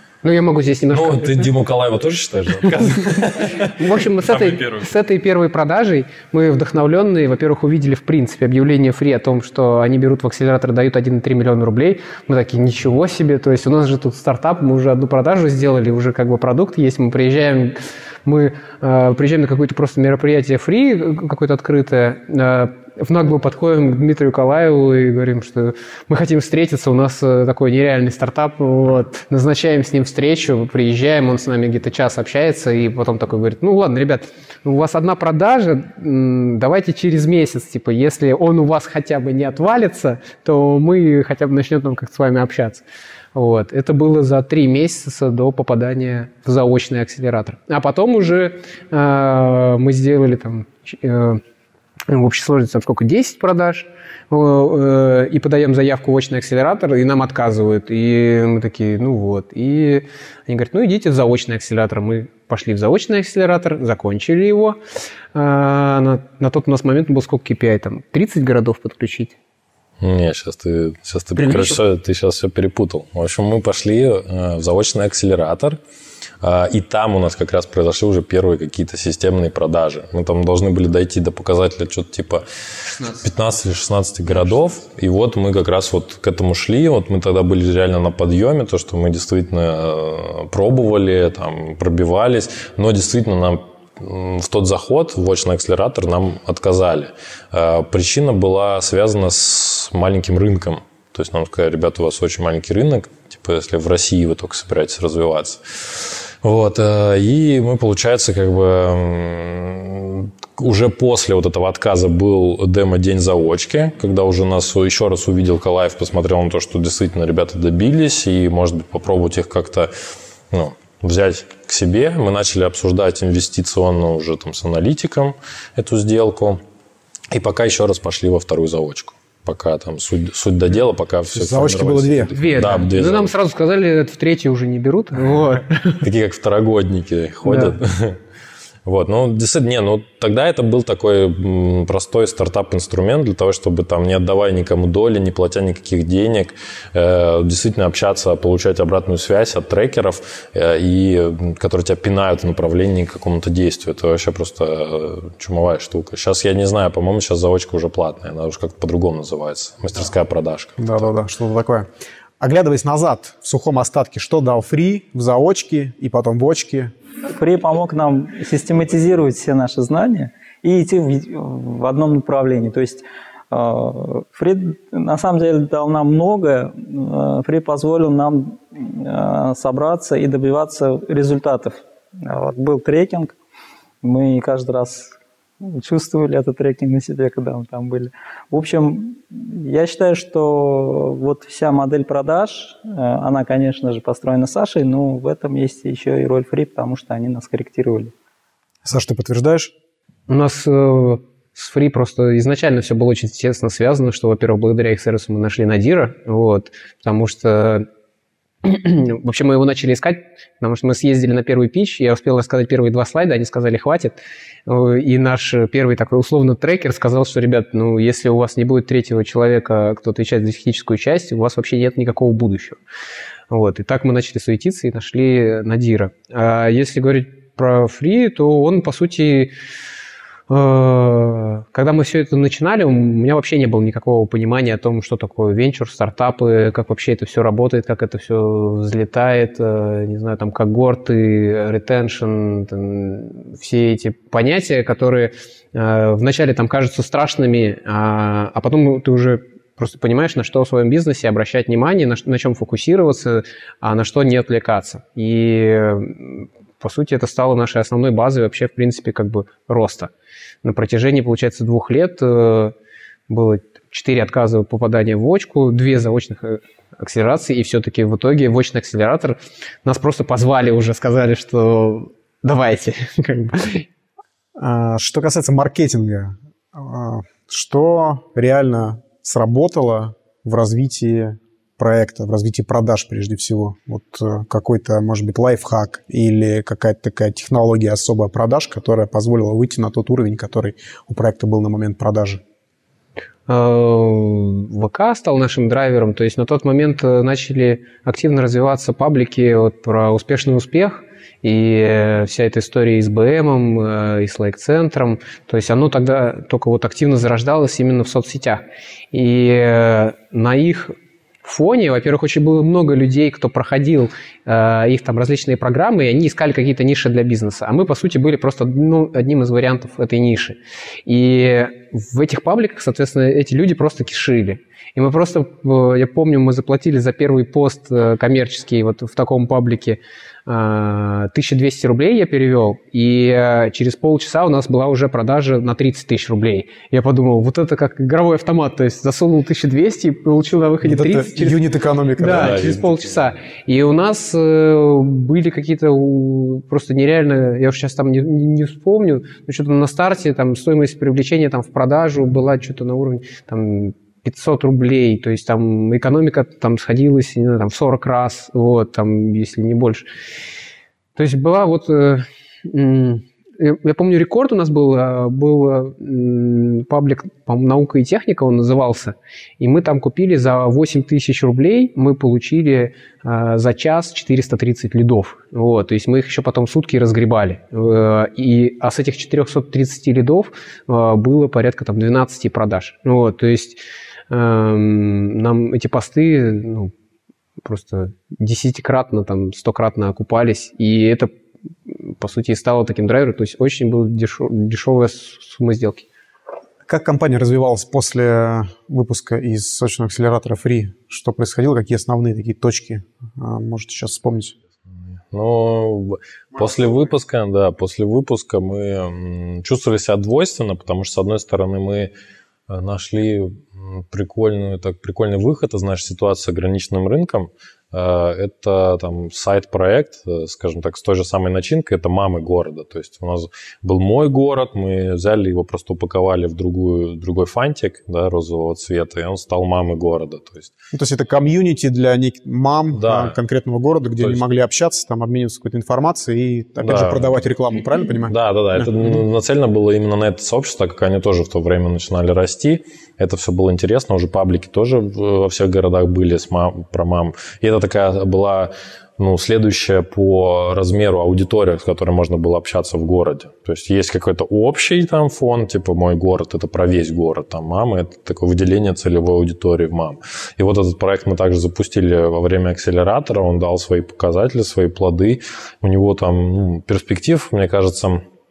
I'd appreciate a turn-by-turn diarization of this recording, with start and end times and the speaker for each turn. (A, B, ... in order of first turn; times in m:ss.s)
0:00.2-0:01.5 A
0:00.9-0:04.9 B
0:02.9-0:42.8 A
0:43.4-0:51.4 A
0:52.1-1:04.8 A
1:05.3-1:09.4 A
1:10.0-1:15.8 B
1:11.4-1:11.8 A
1:16.4-1:59.9 B
2:00.5-2:06.6 B
2:07.3-2:13.3 B
2:11.3-2:12.3 C
2:12.3-2:16.0 A
2:16.0-2:18.2 B
2:17.4-2:17.8 A
2:18.8-2:41.1 B
2:40.8-2:41.9 C
2:42.4-2:46.9 C
2:47.2-3:03.3 D
3:04.0-3:18.1 D
3:18.8-3:19.7 C
3:20.3-3:27.9 A
3:28.6-3:42.8 A
3:43.5-3:49.5 A
3:50.5-4:20.1 A
4:20.6-4:22.8 A
4:23.3-4:33.9 A
4:34.6-4:52.4 C
4:53.5-5:41.6 A
5:40.8-5:42.7 C
5:42.2-6:00.1 A
5:42.3-5:43.2 B
6:01.2-6:26.9 A
6:27.6-6:31.3 A
6:31.9-6:36.1 A
6:36.9-6:44.6 C
6:45.3-6:52.1 B
6:52.7-7:10.7 B
7:10.9-7:18.9 C
7:12.9-7:13.4 B
7:16.8-7:17.4 B
7:18.3-7:48.2 B